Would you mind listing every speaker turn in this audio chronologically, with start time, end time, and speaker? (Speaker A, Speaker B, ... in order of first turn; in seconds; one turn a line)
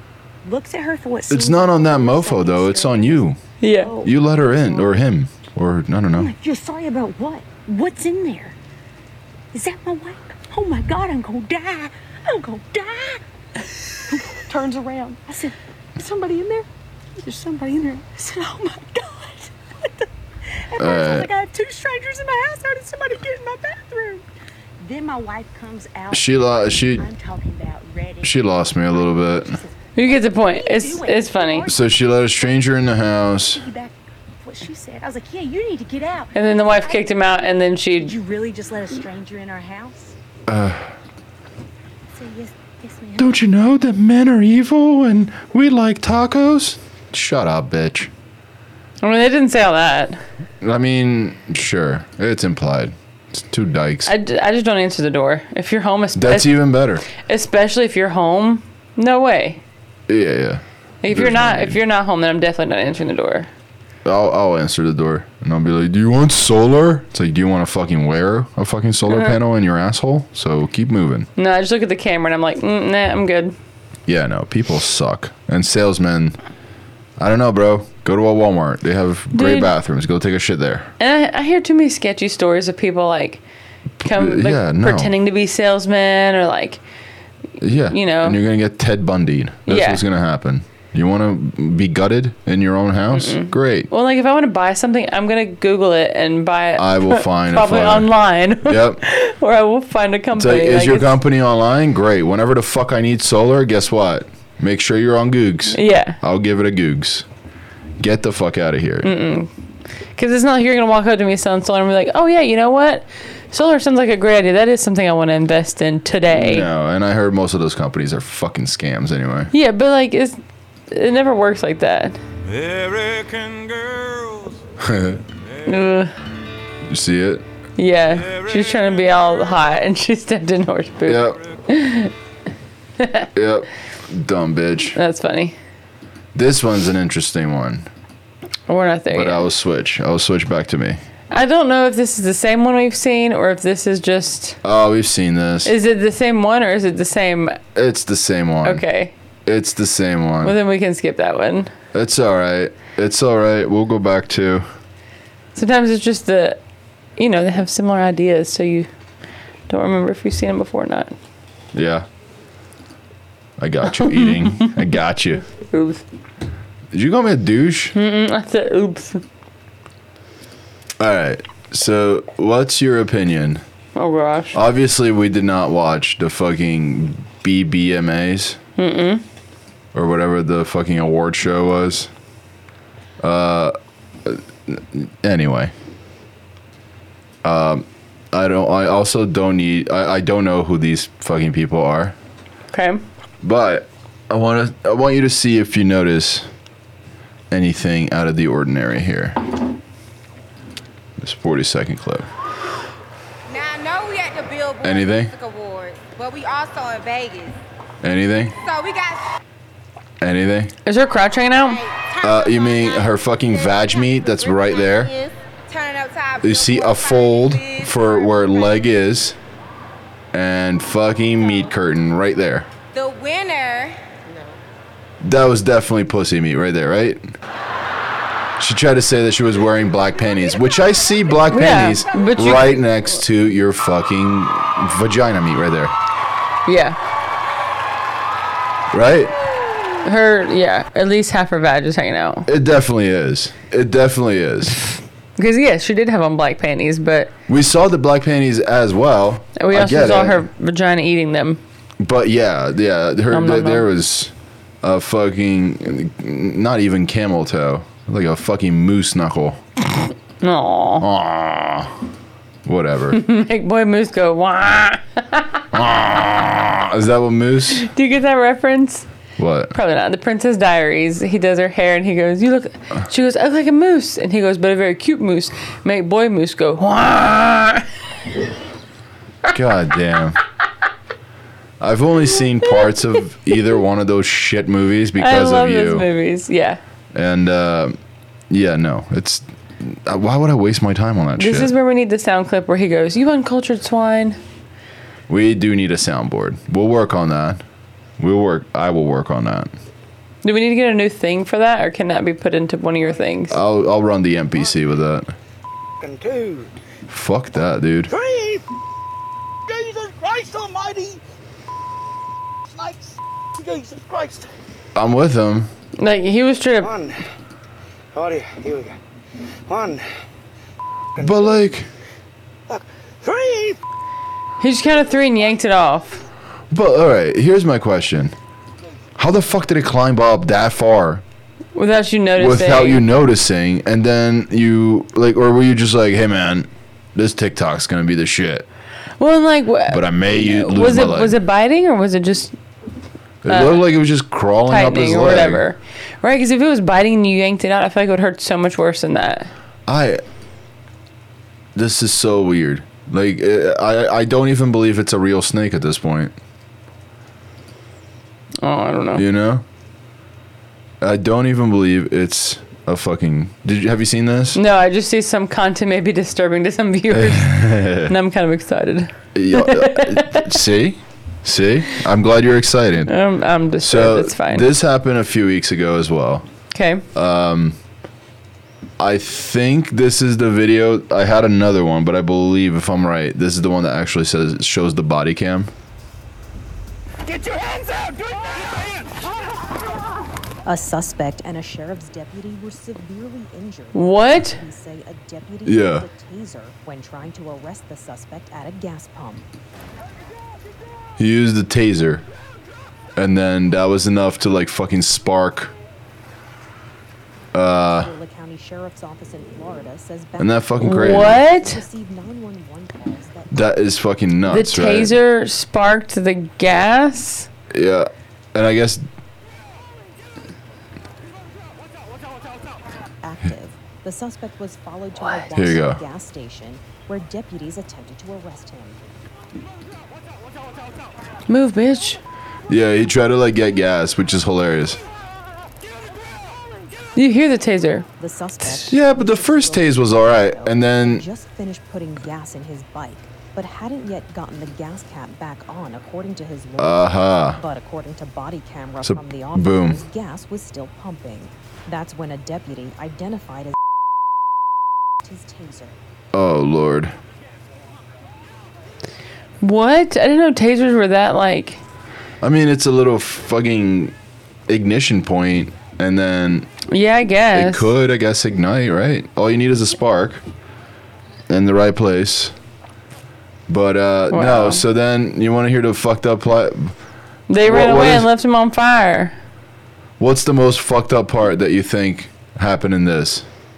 Speaker A: 0.4-4.9
Speaker B: 1.3-3.4
Speaker C: 3.6-3.9
Speaker B: 4.0-6.3
Speaker A: 6.1-8.6
Speaker A: 9.5-13.2
Speaker A: 14.1-24.2
Speaker B: 20.8-21.3
Speaker A: 24.8-32.7
Speaker B: 26.1-27.0
Speaker B: 28.2-29.6
Speaker C: 29.9-31.6
Speaker B: 31.7-33.6
Speaker A: 33.4-37.3
Speaker C: 36.3-38.1
Speaker A: 37.9-40.1
Speaker B: 40.5-40.9
Speaker A: 42.1-43.4
Speaker B: 43.2-48.1
Speaker C: 49.0-50.2
Speaker B: 50.6-54.1
Speaker C: 54.0-56.5
Speaker B: 56.1-57.0
Speaker C: 57.1-59.6
Speaker B: 60.1-61.8
Speaker C: 61.0-63.5
Speaker B: 64.0-71.3
Speaker C: 71.4-73.5
Speaker B: 74.1-76.4
Speaker B: 77.2-80.9
Speaker C: 79.3-79.7
Speaker C: 81.0-83.4
Speaker B: 84.0-85.1
Speaker C: 84.0-86.8
Speaker B: 87.6-93.9
Speaker C: 87.9-88.4
Speaker C: 89.7-90.0
Speaker C: 93.1-101.2
Speaker B: 96.8-98.1
Speaker B: 98.6-99.0
Speaker B: 100.3-107.2
Speaker C: 105.7-106.2
Speaker B: 108.0-109.1
Speaker C: 109.0-109.5
Speaker C: 110.2-116.7
Speaker B: 116.3-119.5
Speaker C: 119.5-120.4
Speaker C: 120.9-122.2
Speaker B: 124.8-125.2
Speaker C: 125.6-126.1
Speaker B: 126.9-127.4
Speaker C: 127.8-132.1
Speaker B: 131.1-131.4
Speaker C: 133.0-133.3
Speaker B: 133.3-135.0
Speaker C: 134.9-135.6
Speaker B: 136.3-137.9
Speaker C: 138.7-139.5
Speaker B: 139.1-141.0
Speaker C: 141.3-144.6
Speaker B: 144.6-145.7
Speaker C: 145.6-147.6
Speaker B: 147.7-148.8
Speaker C: 148.6-149.1
Speaker B: 149.4-150.5
Speaker C: 150.4-151.7
Speaker B: 151.9-154.7
Speaker C: 155.5-156.6
Speaker C: 157.2-158.9
Speaker C: 159.7-161.1
Speaker B: 161.7-162.1
Speaker B: 163.6-165.4
Speaker C: 164.0-164.7
Speaker C: 165.7-166.0
Speaker B: 166.9-167.9
Speaker C: 167.9-169.2
Speaker B: 171.0-173.6
Speaker C: 173.9-174.6
Speaker B: 174.5-178.6
Speaker C: 178.8-179.2
Speaker B: 179.9-182.1
Speaker B: 183.2-185.7
Speaker B: 187.4-192.1
Speaker C: 192.7-193.0
Speaker B: 193.4-196.5
Speaker B: 197.5-199.4
Speaker B: 201.2-202.3
Speaker D: 203.5-207.6
Speaker B: 204.8-205.3
Speaker B: 208.0-208.5
Speaker D: 208.6-209.2
Speaker B: 210.2-210.7
Speaker C: 210.8-211.8
Speaker D: 211.6-218.9
Speaker B: 212.2-215.1
Speaker B: 216.4-219.4
Speaker B: 220.3-222.7
Speaker D: 222.9-224.0
Speaker B: 225.2-227.3
Speaker B: 228.6-235.9
Speaker C: 231.5-232.8
Speaker C: 236.7-237.0
Speaker B: 238.9-239.3
Speaker C: 240.0-242.5
Speaker B: 242.4-244.8
Speaker C: 245.4-247.3
Speaker B: 247.5-250.4
Speaker C: 249.6-251.6
Speaker B: 252.0-259.6
Speaker C: 253.3-253.9
Speaker C: 260.4-261.1
Speaker B: 261.0-261.9
Speaker B: 262.6-263.2
Speaker C: 263.1-265.6
Speaker B: 265.7-267.8
Speaker C: 267.7-269.1
Speaker B: 269.4-269.7
Speaker C: 269.7-277.9
Speaker B: 279.5-280.4
Speaker B: 281.8-286.1
Speaker C: 285.2-286.8
Speaker B: 287.1-287.9
Speaker B: 288.5-291.7
Speaker C: 291.4-294.4
Speaker B: 295.3-297.6
Speaker B: 298.2-299.7
Speaker C: 300.4-303.6
Speaker B: 303.5-305.3
Speaker E: 306.0-306.8
Speaker B: 307.1-308.1
Speaker E: 308.1-308.6
Speaker E: 309.7-311.2
Speaker E: 312.7-314.5
Speaker B: 314.9-315.7
Speaker C: 316.0-316.9
Speaker E: 316.8-317.2
Speaker E: 318.1-318.9
Speaker E: 319.7-320.0
Speaker E: 321.2-321.6
Speaker B: 321.2-321.9
Speaker E: 322.7-323.8
Speaker C: 324.6-326.2
Speaker B: 326.7-328.3
Speaker B: 329.2-331.2
Speaker C: 331.7-333.1
Speaker B: 332.4-338.6
Speaker C: 339.2-342.6
Speaker B: 339.9-341.3
Speaker B: 343.4-345.6
Speaker C: 343.5-343.8
Speaker C: 344.7-349.5
Speaker B: 349.9-350.2
Speaker B: 351.7-356.4
Speaker C: 358.6-359.2
Speaker B: 359.1-359.6
Speaker B: 361.0-364.6
Speaker C: 364.5-370.6
Speaker B: 367.1-368.1
Speaker B: 369.3-373.1
Speaker C: 373.1-374.7
Speaker B: 373.8-376.4
Speaker C: 376.7-377.0
Speaker B: 377.1-377.8
Speaker B: 379.0-385.7
Speaker F: 390.6-399.4
Speaker C: 393.9-394.6
Speaker B: 395.6-396.1
Speaker B: 401.2-402.2
Speaker B: 403.1-405.7
Speaker B: 407.5-408.1
Speaker F: 407.7-413.7
Speaker B: 410.4-411.4
Speaker C: 410.8-411.8
Speaker B: 413.5-415.1
Speaker C: 414.4-417.5
Speaker B: 417.7-419.0
Speaker F: 423.2-429.0
Speaker B: 425.5-426.0
Speaker C: 431.5-432.2
Speaker B: 432.7-435.0
Speaker C: 437.1-438.1
Speaker F: 438.2-453.7
Speaker B: 438.8-441.2
Speaker B: 446.8-447.6
Speaker B: 449.0-450.0
Speaker F: 455.2-456.0
Speaker B: 456.3-457.1
Speaker C: 459.6-461.8
Speaker B: 462.4-464.1
Speaker B: 464.7-466.7
Speaker C: 466.9-467.9
Speaker B: 467.5-470.4
Speaker B: 471.5-472.5
Speaker B: 473.7-476.9
Speaker C: 474.3-474.8
Speaker C: 477.5-479.3
Speaker B: 477.6-478.3
Speaker B: 480.2-483.4